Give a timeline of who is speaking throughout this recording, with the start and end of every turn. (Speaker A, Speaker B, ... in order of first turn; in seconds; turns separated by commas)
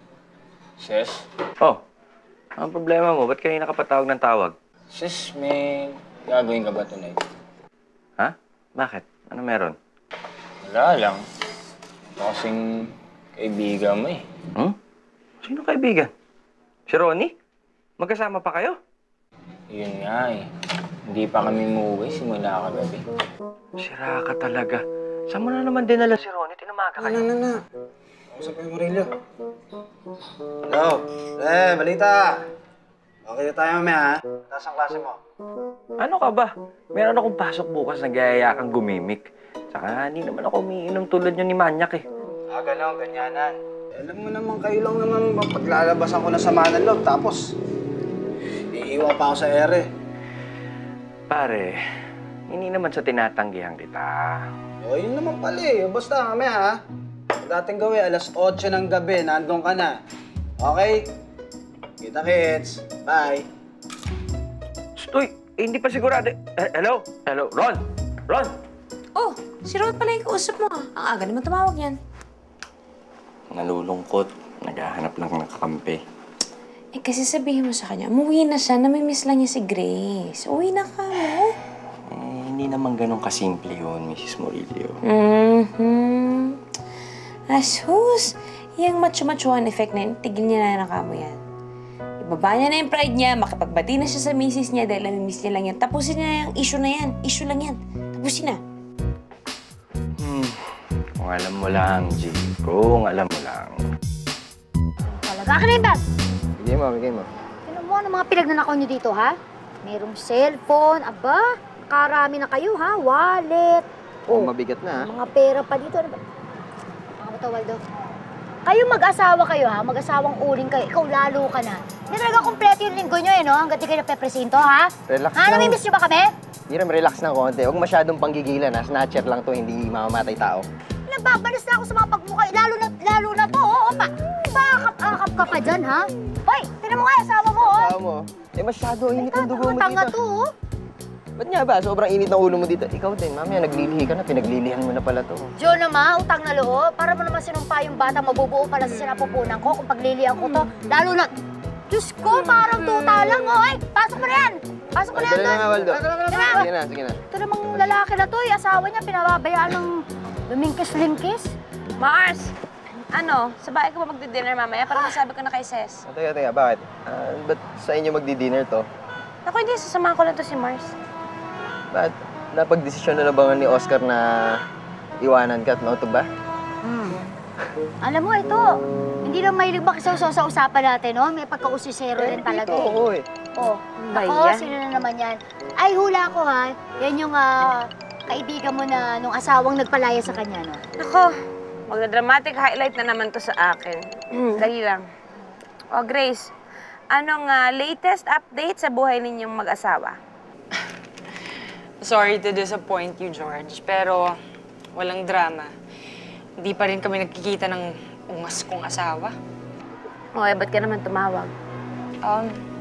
Speaker A: 0.8-1.2, Speaker B: 2.6-4.5, Speaker A: 4.9-7.2, Speaker B: 8.2-9.8, Speaker A: 10.6-11.2, Speaker A: 12.2-12.6, Speaker A: 13.3-14.2, Speaker B: 15.4-16.1, Speaker B: 16.9-17.3, Speaker B: 18.0-18.8, Speaker A: 19.7-20.4, Speaker A: 21.1-23.0, Speaker B: 23.8-27.3, Speaker C: 28.3-29.1, Speaker C: 30.7-32.3, Speaker C: 33.2-35.2, Speaker B: 36.0-42.0, Speaker C: 42.5-47.4, Speaker C: 48.7-49.9, Speaker B: 51.3-51.7, Speaker B: 52.5-54.4, Speaker C: 54.8-56.8, Speaker C: 57.4-59.9, Speaker C: 60.6-61.1, Speaker C: 62.0-63.5, Speaker B: 65.0-68.5, Speaker D: 69.2-72.0, Speaker B: 73.5-76.0, Speaker D: 76.9-81.5, Speaker B: 82.1-85.0, Speaker D: 85.0-86.6, Speaker D: 87.5-91.4, Speaker D: 92.2-98.6, Speaker B: 100.2-100.6, Speaker B: 101.2-103.8, Speaker E: 105.1-106.0, Speaker F: 106.6-107.3, Speaker E: 107.6-114.5, Speaker F: 114.3-115.1, Speaker E: 115.0-116.2, Speaker E: 117.2-117.8, Speaker E: 118.7-126.3, Speaker F: 125.1-125.8, Speaker F: 126.7-130.7, Speaker E: 131.1-137.9, Speaker F: 137.6-140.1, Speaker E: 139.2-140.5, Speaker F: 141.4-145.5, Speaker E: 145.6-151.3, Speaker E: 151.9-156.7, Speaker D: 152.3-153.5, Speaker F: 155.1-157.2, Speaker E: 157.3-161.5, Speaker D: 162.0-162.5, Speaker D: 163.1-166.0, Speaker F: 166.1-168.8, Speaker D: 169.4-170.9, Speaker F: 171.9-174.6, Speaker F: 175.2-176.3, Speaker E: 176.8-177.2, Speaker E: 178.0-178.7, Speaker E: 179.2-183.0, Speaker F: 182.2-183.2, Speaker E: 183.6-190.8, Speaker D: 184.0-184.7, Speaker D: 191.0-191.3, Speaker D: 191.9-195.0, Speaker D: 195.9-196.5, Speaker D: 197.1-200.2, Speaker G: 202.0-204.3, Speaker G: 204.9-205.7, Speaker G: 206.6-209.3, Speaker D: 210.3-211.5, Speaker G: 212.2-212.5